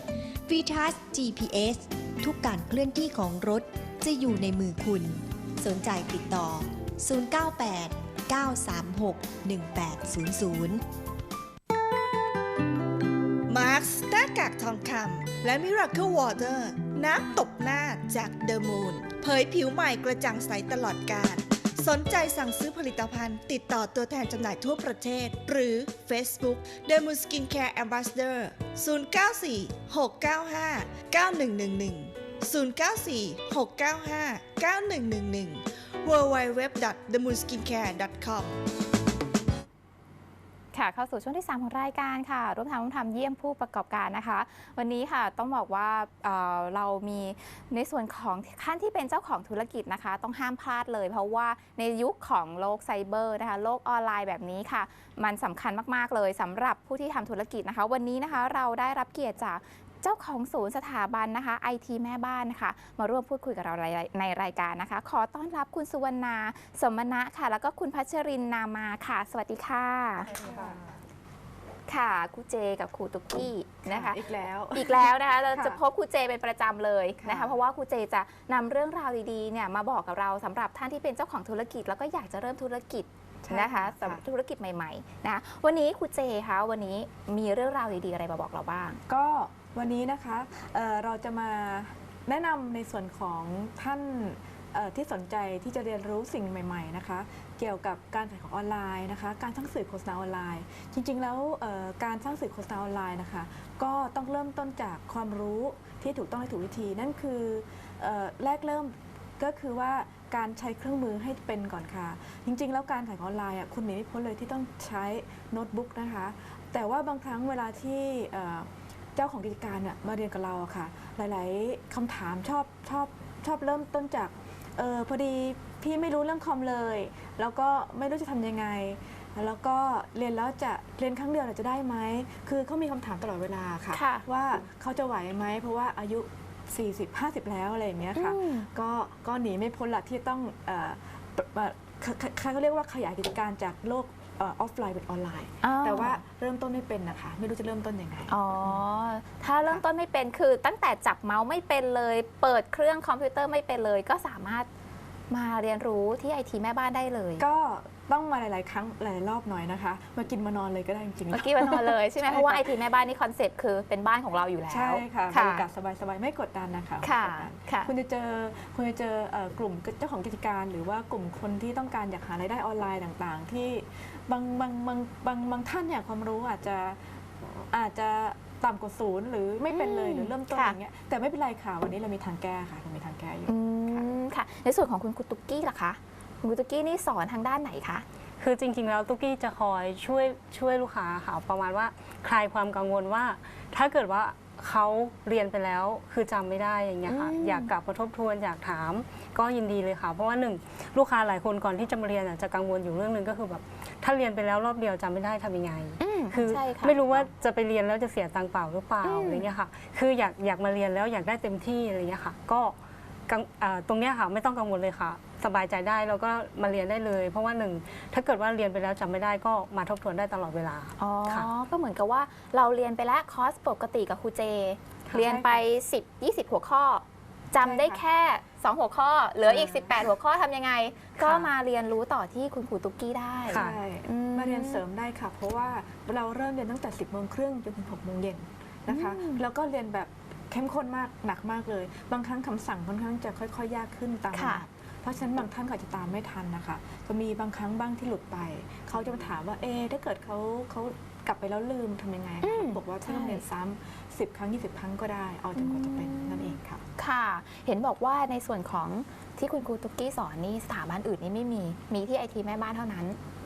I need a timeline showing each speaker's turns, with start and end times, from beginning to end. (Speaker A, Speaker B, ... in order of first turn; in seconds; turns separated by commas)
Speaker A: 0.5-10.8, Speaker B: 13.5-38.6, Speaker C: 40.7-70.5, Speaker D: 70.3-70.9, Speaker C: 71.9-74.2, Speaker D: 73.8-75.8, Speaker C: 74.7-89.0, Speaker D: 77.2-77.6, Speaker D: 83.4-84.2, Speaker D: 89.1-148.8, Speaker C: 133.9-134.2, Speaker C: 138.2-138.7, Speaker C: 145.6-146.2, Speaker C: 148.3-154.7, Speaker C: 155.3-157.4, Speaker D: 157.4-162.7, Speaker C: 161.3-165.7, Speaker D: 164.7-184.1, Speaker C: 167.0-167.9, Speaker C: 179.7-180.8, Speaker C: 183.5-188.1, Speaker E: 188.4-212.8, Speaker C: 197.1-197.7, Speaker C: 206.0-207.3, Speaker C: 209.0-209.5, Speaker E: 213.3-221.5, Speaker C: 221.0-234.8, Speaker D: 225.2-225.6, Speaker D: 227.6-228.0, Speaker D: 229.5-229.9, Speaker E: 231.2-231.5, Speaker D: 233.5-256.8, Speaker E: 233.5-233.8, Speaker C: 238.9-239.4, Speaker C: 244.3-244.6, Speaker C: 252.4-253.4, Speaker C: 255.6-263.2